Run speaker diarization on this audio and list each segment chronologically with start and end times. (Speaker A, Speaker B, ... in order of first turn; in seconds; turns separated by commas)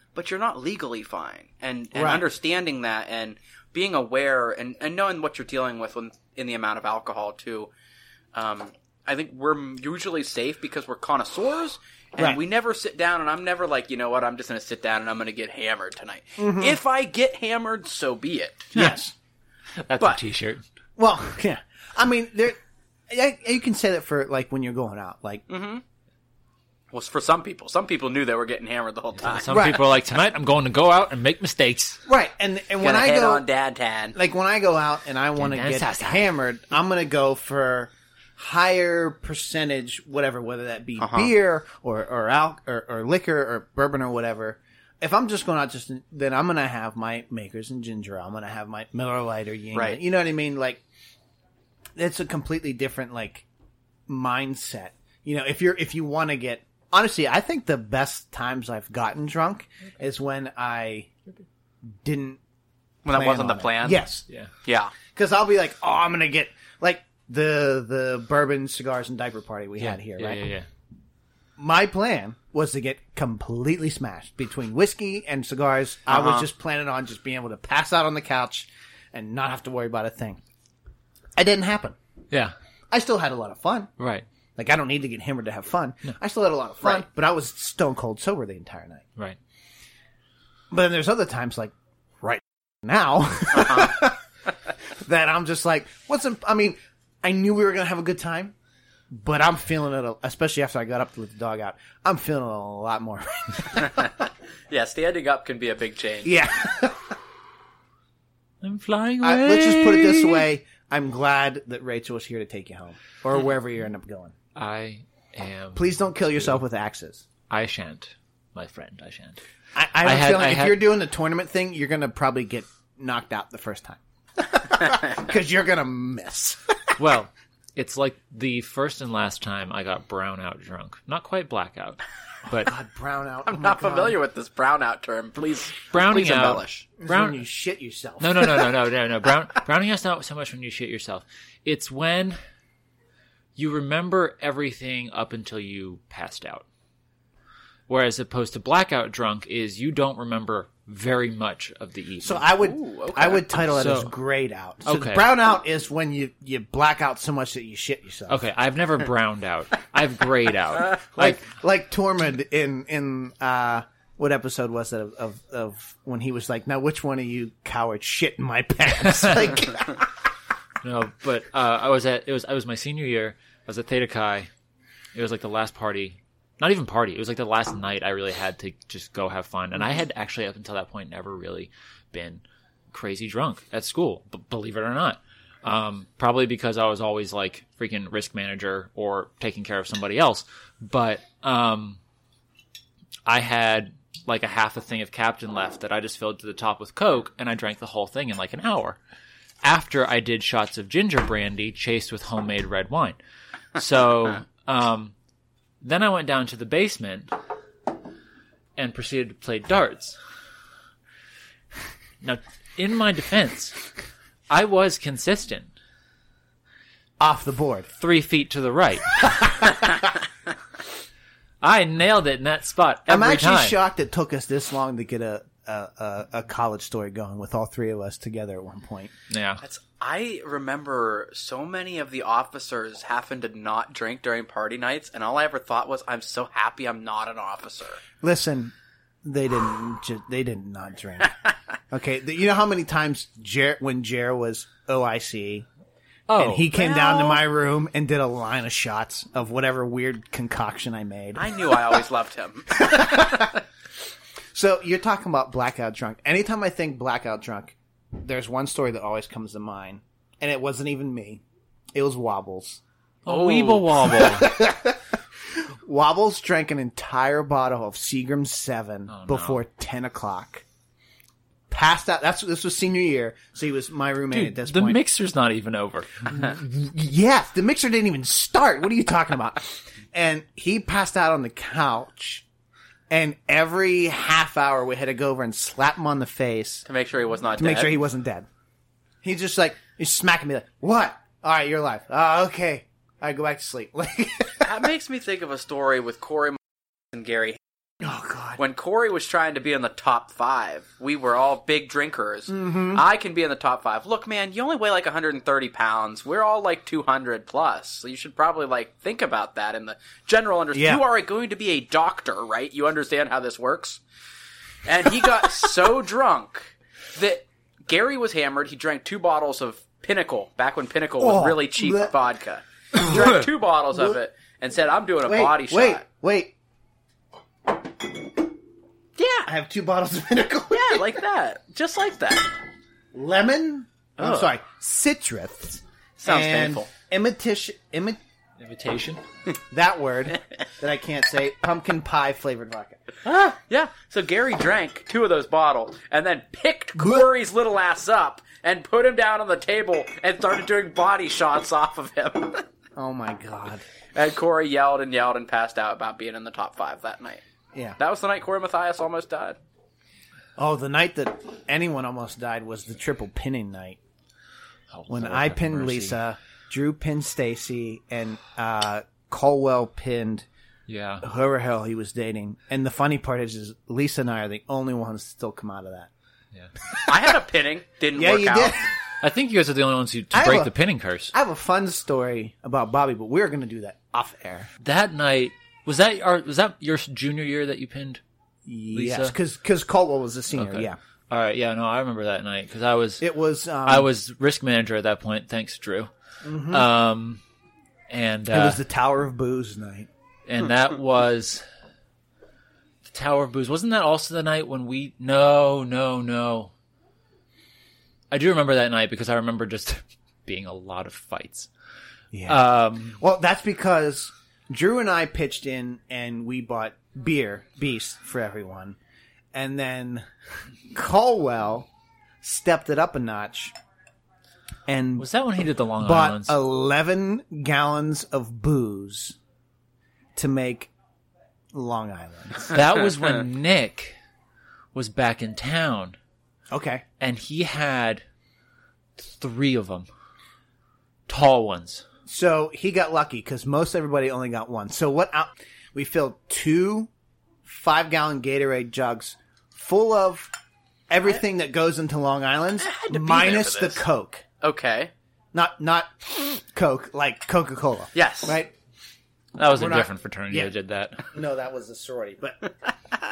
Speaker A: 0.1-7.7, Speaker B: 1.9-2.3, Speaker A: 8.3-18.7, Speaker B: 16.4-16.8, Speaker B: 18.7-19.1, Speaker C: 19.8-20.6, Speaker B: 21.0-25.4, Speaker A: 25.5-25.8, Speaker A: 26.9-29.6, Speaker C: 29.2-32.0, Speaker B: 29.5-29.9, Speaker B: 32.1-33.5, Speaker A: 32.8-34.2, Speaker B: 34.1-50.8, Speaker C: 35.4-36.3, Speaker A: 41.0-41.3, Speaker A: 49.7-50.0, Speaker B: 52.0-53.5, Speaker B: 54.1-61.1, Speaker B: 61.9-62.4, Speaker A: 63.0-64.0, Speaker B: 63.1-64.2, Speaker A: 64.7-65.0, Speaker B: 65.1-70.5, Speaker C: 69.8-70.7, Speaker B: 71.6-80.4, Speaker A: 76.1-76.5, Speaker B: 81.4-82.0, Speaker B: 82.9-83.9, Speaker C: 84.0-84.2, Speaker B: 84.6-89.0, Speaker B: 90.7-94.2, Speaker A: 93.5-94.0, Speaker B: 94.9-98.5, Speaker B: 99.1-104.1, Speaker A: 103.8-104.1, Speaker A: 104.7-106.3, Speaker B: 106.2-107.2, Speaker C: 108.6-110.5, Speaker B: 109.2-114.3, Speaker C: 114.5-116.6, Speaker B: 115.8-117.3, Speaker C: 117.5-119.4, Speaker B: 119.8-127.0, Speaker C: 120.0-120.8, Speaker C: 127.0-132.7, Speaker B: 132.6-134.2, Speaker A: 133.4-136.8, Speaker C: 135.9-137.4, Speaker B: 137.0-138.7, Speaker C: 138.2-142.4, Speaker C: 143.6-146.7, Speaker C: 147.9-152.5, Speaker B: 152.2-158.4, Speaker A: 152.6-153.5, Speaker C: 153.7-154.1, Speaker C: 154.8-155.3, Speaker C: 158.3-161.4, Speaker B: 161.1-170.1, Speaker C: 170.8-174.5, Speaker C: 175.1-192.0, Speaker C: 193.3-199.0, Speaker C: 199.6-203.2, Speaker C: 203.8-205.1, Speaker C: 205.8-207.3, Speaker C: 208.8-210.2, Speaker C: 212.2-213.8, Speaker C: 214.5-215.7, Speaker B: 217.2-217.9, Speaker C: 218.0-219.7, Speaker B: 219.3-219.9, Speaker C: 221.6-223.8, Speaker B: 223.1-229.1, Speaker C: 229.3-229.6, Speaker A: 229.6-238.0, Speaker B: 238.2-238.7, Speaker B: 239.2-241.4, Speaker B: 241.9-245.7, Speaker C: 246.3-247.3, Speaker B: 246.4-252.0, Speaker A: 246.8-247.3, Speaker A: 251.3-253.6, Speaker B: 252.7-253.6, Speaker B: 254.5-261.4, Speaker B: 261.9-262.8, Speaker A: 263.3-264.1, Speaker C: 263.3-264.6, Speaker B: 264.0-270.6, Speaker C: 269.1-269.6, Speaker B: 271.7-275.0, Speaker C: 274.3-276.6, Speaker B: 276.3-282.4, Speaker B: 283.1-286.9, Speaker A: 286.9-288.0, Speaker B: 287.6-288.5, Speaker B: 289.2-294.7, Speaker A: 294.6-296.6, Speaker A: 297.1-297.6, Speaker B: 298.0-298.6, Speaker A: 298.6-314.0, Speaker B: 302.5-303.0, Speaker B: 310.7-311.0, Speaker A: 314.9-326.1, Speaker B: 321.2-322.1, Speaker B: 322.9-323.4, Speaker B: 325.2-326.6, Speaker A: 329.2-329.5, Speaker B: 329.5-331.2, Speaker A: 330.7-332.6, Speaker B: 333.1-338.2, Speaker A: 334.2-334.5, Speaker A: 336.2-336.9, Speaker C: 338.6-339.2, Speaker B: 339.7-343.1, Speaker A: 343.3-352.7, Speaker B: 347.0-347.3, Speaker B: 353.0-353.9, Speaker A: 354.1-357.4, Speaker A: 358.0-359.6, Speaker B: 360.6-364.0, Speaker C: 364.9-366.2, Speaker B: 365.1-370.5, Speaker C: 370.9-371.2, Speaker B: 371.2-376.1, Speaker A: 377.1-378.8, Speaker B: 378.1-378.9, Speaker C: 379.2-381.3, Speaker B: 380.3-380.7, Speaker B: 381.3-384.7, Speaker C: 384.8-388.2, Speaker B: 388.7-391.0, Speaker C: 388.9-389.4, Speaker C: 390.6-393.2, Speaker B: 393.2-394.1, Speaker C: 393.8-396.1, Speaker B: 396.4-396.9, Speaker C: 396.6-397.4, Speaker C: 398.1-398.8, Speaker B: 398.5-400.1, Speaker C: 400.5-401.6, Speaker C: 403.0-406.7, Speaker C: 408.3-411.7, Speaker B: 412.3-419.0, Speaker C: 412.5-413.2, Speaker B: 419.5-421.9, Speaker B: 422.4-423.8, Speaker B: 424.9-425.3, Speaker C: 425.2-426.6, Speaker B: 426.0-429.4, Speaker B: 430.4-430.9, Speaker B: 431.7-432.8, Speaker C: 432.7-434.1, Speaker C: 434.9-436.2, Speaker B: 436.7-437.1, Speaker C: 437.2-438.2, Speaker C: 439.2-440.1, Speaker C: 441.3-442.1, Speaker B: 442.3-447.1, Speaker B: 447.6-450.5, Speaker B: 451.1-454.4, Speaker A: 452.8-454.1, Speaker A: 454.6-455.1, Speaker B: 455.5-458.7, Speaker A: 458.1-458.6, Speaker C: 459.6-461.3, Speaker B: 459.6-460.7, Speaker B: 461.3-462.7